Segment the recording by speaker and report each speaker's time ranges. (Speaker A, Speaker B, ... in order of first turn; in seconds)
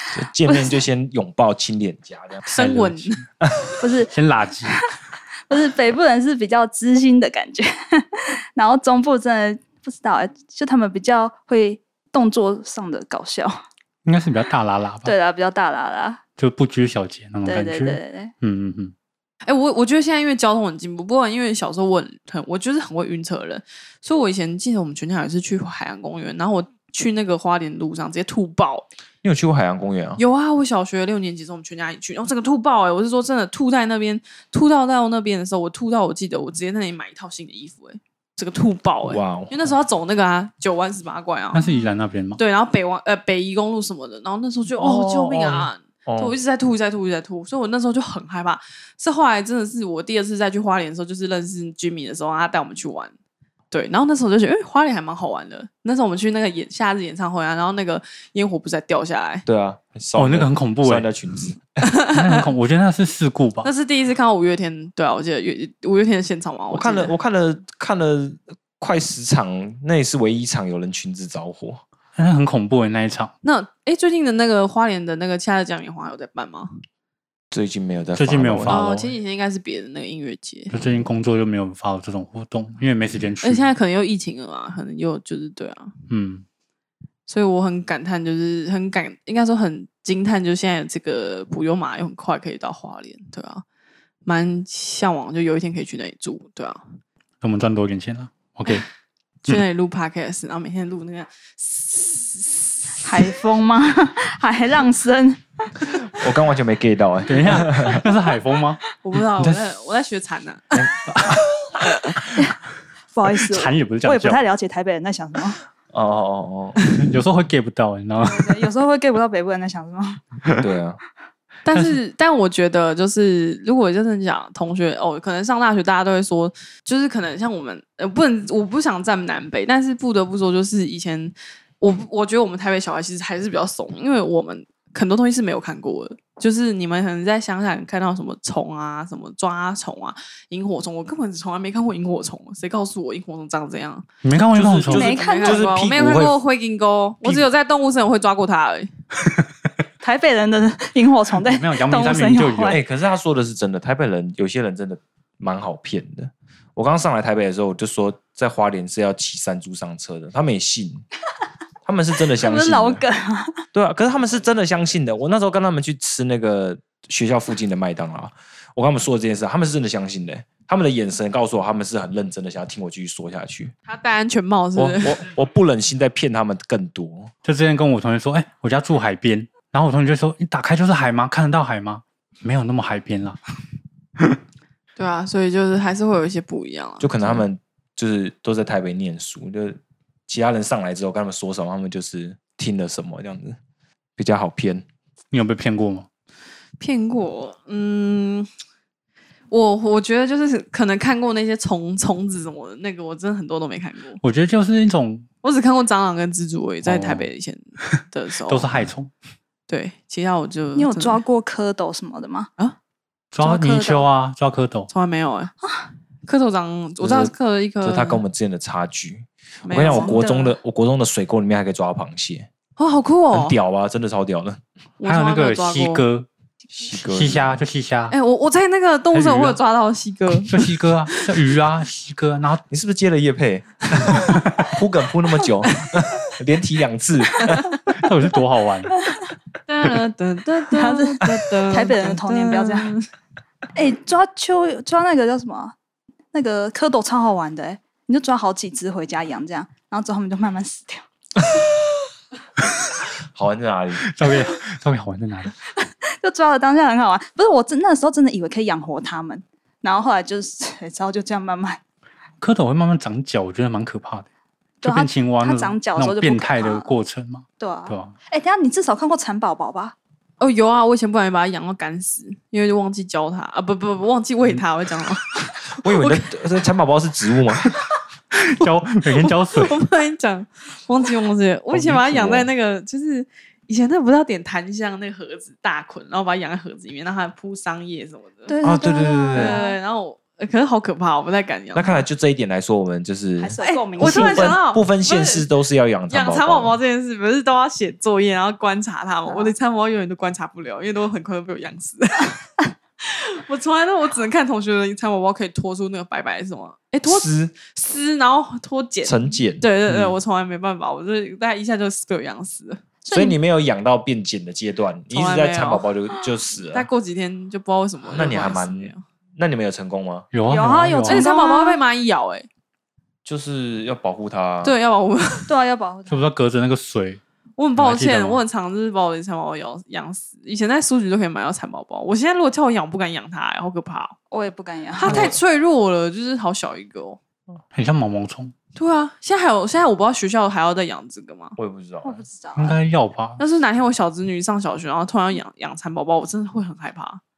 Speaker A: 0.1-2.4, 29.2-30.2, 39.0-39.7, 44.8-46.4, 59.5-61.6, 66.7-71.8, 77.5-79.1, 106.0-108.0, 115.9-117.0, 120.5-121.0, 144.5-146.4, 152.7-161.0, 161.8-163.0, 163.7-173.7, 174.7-177.3, 187.0-193.6, 194.2-194.8, 217.0-222.5, 223.3-224.6, 226.7-227.6, 232.7-237.6, 253.3-254.1, 275.8-277.8, 281.7-282.5, 288.6-289.6, 291.7-296.8, 307.0-307.5, 309.1-309.7, 313.1-316.9, 318.1-320.3, 323.2-324.8, 335.0-335.4, 341.6-342.2
Speaker B: 2.5-3.2, 19.4-28.9, 30.2-41.6, 42.4-53.1, 53.7-59.4, 61.8-62.5, 63.6-67.1, 73.4-76.7, 78.7-80.7, 83.4-85.9, 87.3-93.6, 94.2-96.8, 99.4-103.0, 109.0-110.9, 121.7-144.1, 144.9-148.9, 173.9-175.2, 185.0-187.1, 196.8-198.5, 199.5-204.2, 205.4-208.7, 209.7-211.2, 214.9-215.5, 216.2-218.2, 219.6-220.2, 222.8-223.6, 225.0-226.1, 228.1-231.5, 235.6-236.1, 237.5-237.7, 239.7-243.1, 270.4-276.3, 279.0-288.5, 289.3-292.1, 293.6-295.4, 296.1-302.4, 303.0-312.8, 315.1-315.8, 316.7-319.0, 321.1-322.5, 324.6-325.5, 327.6-334.2, 335.0-337.2, 338.7-341.6, 343.4-347.2
Speaker C: 2.5-3.2, 4.1-4.8, 14.0-15.1, 16.4-18.9, 41.5-42.4, 60.1-61.1, 62.1-63.7, 72.2-73.3, 78.2-78.8, 80.7-83.7, 86.1-86.4, 97.4-98.8, 107.3-108.8, 111.1-111.5, 113.4-114.4, 117.0-118.7, 121.7-122.0, 144.2-145.1, 151.5-152.8, 177.4-183.4, 195.3-196.1, 204.2-205.3, 206.8-207.3, 208.5-209.1, 213.3-214.9, 225.0-226.3, 227.0-228.1, 229.1-229.6, 230.4-232.6, 234.0-234.7, 237.9-238.9, 254.1-255.5, 262.4-264.3, 264.8-268.1, 278.3-279.8, 309.9-310.1, 320.3-321.2, 326.1-327.2, 327.8-328.4, 337.7-338.5, 342.6-343.4
Speaker D: 3.8-4.1, 5.5-13.5, 15.0-16.2, 17.4-18.3, 103.0-105.4, 113.1-115.6, 118.2-120.2, 144.9-145.7, 150.0-152.8, 162.3-163.6, 210.8-212.5, 213.4-214.1, 219.9-220.6, 240.7-242.9, 243.7-245.7, 246.3-251.0, 256.2-261.8, 264.8-266.9, 267.6-269.9, 288.5-289.8, 293.4-294.6, 299.3-299.5, 313.0-313.4, 320.5-321.8, 325.5-326.2, 334.3-335.3, 342.0-342.8